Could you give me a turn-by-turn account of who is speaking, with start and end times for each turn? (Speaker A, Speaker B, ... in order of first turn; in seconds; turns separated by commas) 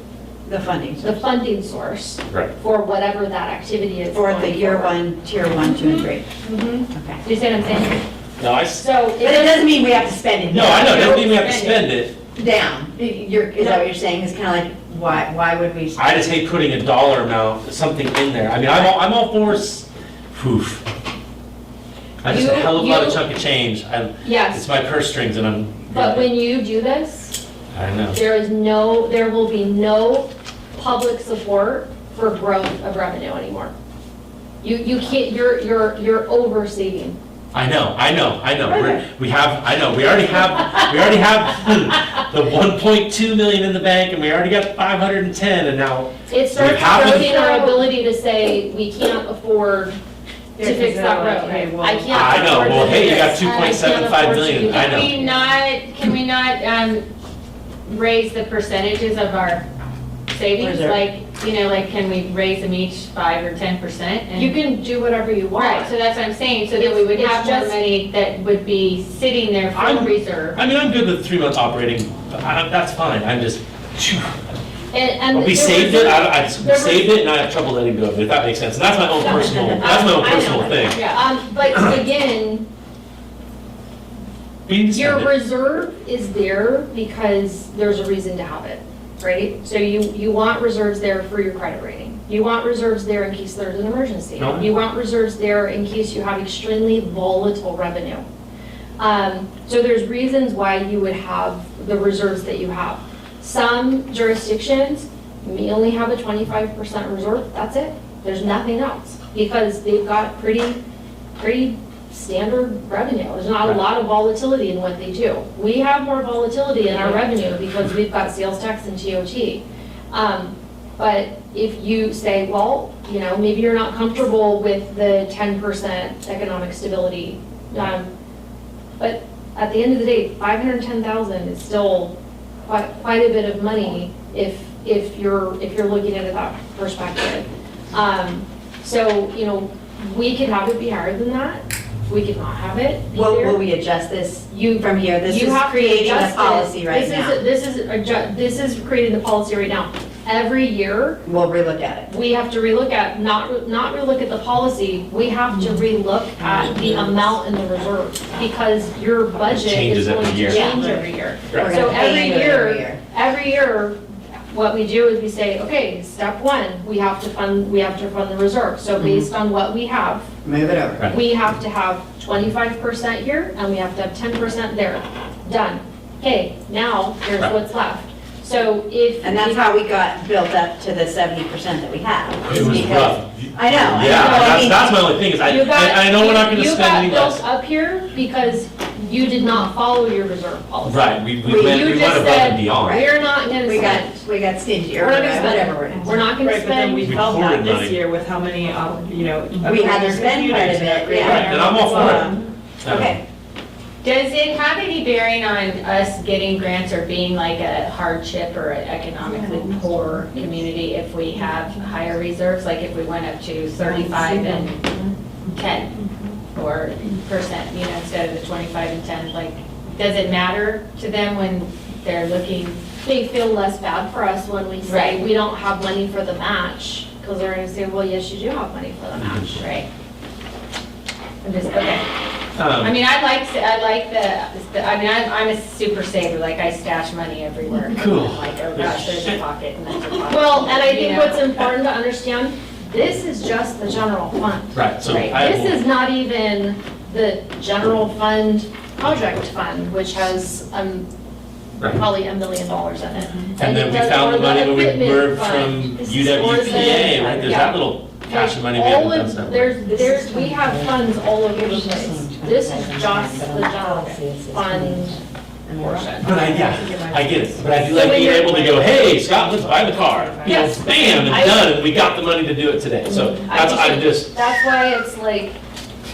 Speaker A: 0.5-1.2, Speaker B: 1.0-5.0, Speaker A: 4.1-6.3, Speaker B: 5.6-8.1, Speaker A: 6.9-7.2, Speaker C: 8.4-8.8, Speaker B: 8.7-9.8, Speaker A: 9.2-11.2, Speaker C: 10.5-12.2, Speaker D: 10.8-11.8, Speaker A: 12.3-16.3, Speaker B: 13.6-13.9, Speaker C: 16.0-20.8, Speaker C: 22.2-26.4, Speaker B: 22.3-23.2, Speaker B: 24.2-24.6, Speaker B: 25.9-27.4, Speaker C: 27.7-28.2, Speaker B: 28.1-33.7, Speaker B: 34.6-37.2, Speaker C: 37.5-47.8, Speaker B: 38.7-39.0, Speaker B: 46.3-50.0, Speaker E: 50.6-52.9, Speaker B: 50.6-55.3, Speaker C: 52.1-55.2, Speaker D: 54.6-57.0, Speaker D: 57.9-59.7, Speaker D: 60.3-64.6, Speaker A: 60.6-61.0, Speaker B: 64.3-65.9, Speaker D: 65.5-70.6, Speaker B: 66.8-67.8, Speaker C: 69.7-74.3, Speaker B: 74.9-77.2, Speaker C: 75.3-81.0, Speaker B: 79.2-82.7, Speaker A: 79.4-80.0, Speaker D: 80.9-81.2, Speaker C: 84.7-85.3, Speaker B: 84.9-98.3, Speaker C: 94.4-94.7, Speaker B: 99.0-110.8, Speaker B: 111.4-128.1, Speaker B: 129.0-143.6, Speaker A: 143.1-147.4, Speaker B: 144.5-151.2, Speaker A: 151.2-152.1, Speaker B: 152.1-164.0, Speaker A: 156.7-157.2, Speaker C: 159.5-160.7, Speaker A: 160.5-160.9, Speaker E: 160.7-161.1, Speaker A: 161.6-163.0, Speaker B: 164.5-170.3, Speaker A: 169.0-169.3, Speaker A: 170.4-171.1, Speaker B: 171.1-179.7, Speaker A: 179.2-184.9, Speaker C: 182.4-187.4, Speaker B: 184.0-194.2, Speaker C: 190.8-193.0, Speaker A: 191.4-191.9, Speaker A: 192.9-196.2, Speaker B: 195.0-197.4, Speaker E: 196.0-202.5, Speaker C: 197.0-198.0, Speaker A: 199.6-203.2, Speaker C: 201.2-203.2, Speaker D: 204.0-214.9, Speaker E: 209.6-210.0, Speaker E: 214.1-214.6, Speaker D: 215.5-216.0, Speaker D: 216.5-222.8, Speaker B: 223.0-229.6, Speaker D: 224.8-225.2, Speaker C: 229.2-229.7, Speaker D: 229.6-229.9, Speaker D: 231.4-232.1, Speaker C: 232.6-233.0, Speaker D: 232.8-241.7, Speaker C: 237.9-239.4, Speaker B: 240.3-251.1, Speaker C: 244.7-245.8, Speaker B: 251.9-265.2, Speaker C: 253.6-259.9, Speaker E: 256.6-257.1, Speaker E: 259.8-265.2, Speaker B: 265.8-266.3, Speaker E: 265.8-270.6, Speaker C: 266.2-274.4, Speaker B: 267.9-269.0, Speaker B: 270.4-271.7, Speaker B: 273.1-275.6